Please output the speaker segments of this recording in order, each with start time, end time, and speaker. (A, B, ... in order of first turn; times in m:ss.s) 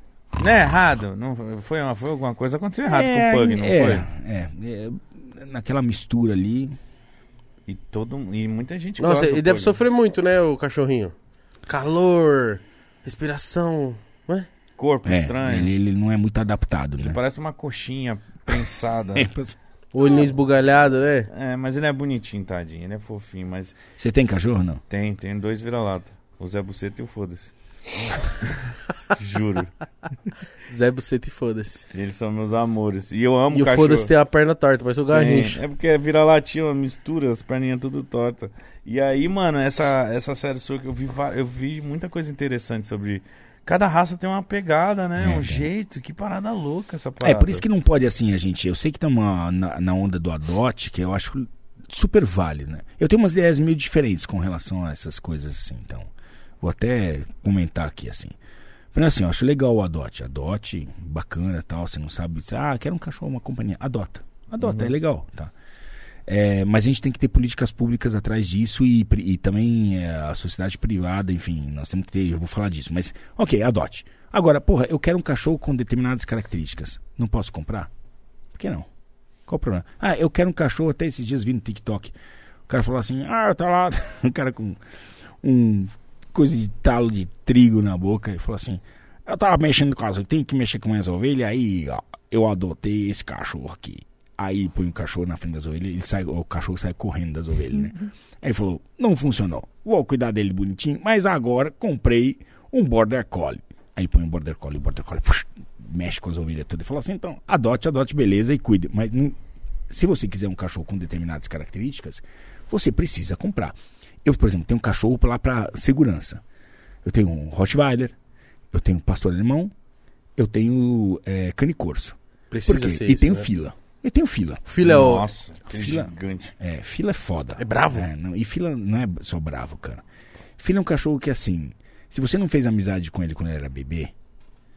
0:00.4-0:04.1 A
0:02.9-0:06.8 B
0:07.7-0:09.8 A
0:09.0-0:11.1 C
0:11.7-0:14.5 C
0:14.8-0:15.7 A
0:15.0-0:17.2 B
0:17.0-0:19.3 A
0:19.2-0:19.6 B
0:19.9-0:21.3 C
0:21.3-0:23.8 A
0:24.0-0:24.8 B
0:24.9-0:27.5 A
0:29.1-0:29.7 A
0:30.7-0:31.9 C
0:31.9-0:34.1 A
0:33.5-0:35.6 C
0:35.1-0:47.6 A
0:45.2-0:45.7 B
0:47.2-0:56.1 B
0:56.6-0:58.4 B
0:58.9-1:05.5 B
1:04.6-1:04.9 A
1:06.3-1:17.9 B
1:18.5-1:18.9 B
1:19.5-1:22.2 B
1:22.7-1:24.8 B
1:25.4-1:49.4 B
1:49.9-1:56.4 B
1:57.0-1:58.2 B
1:58.7-1:59.7 B
2:00.4-2:05.0 B
2:02.5-2:03.5 C
2:04.7-2:05.3 C
2:04.8-2:06.5 A
2:05.7-2:10.0 B
2:07.6-2:08.1 C
2:10.6-2:14.1 B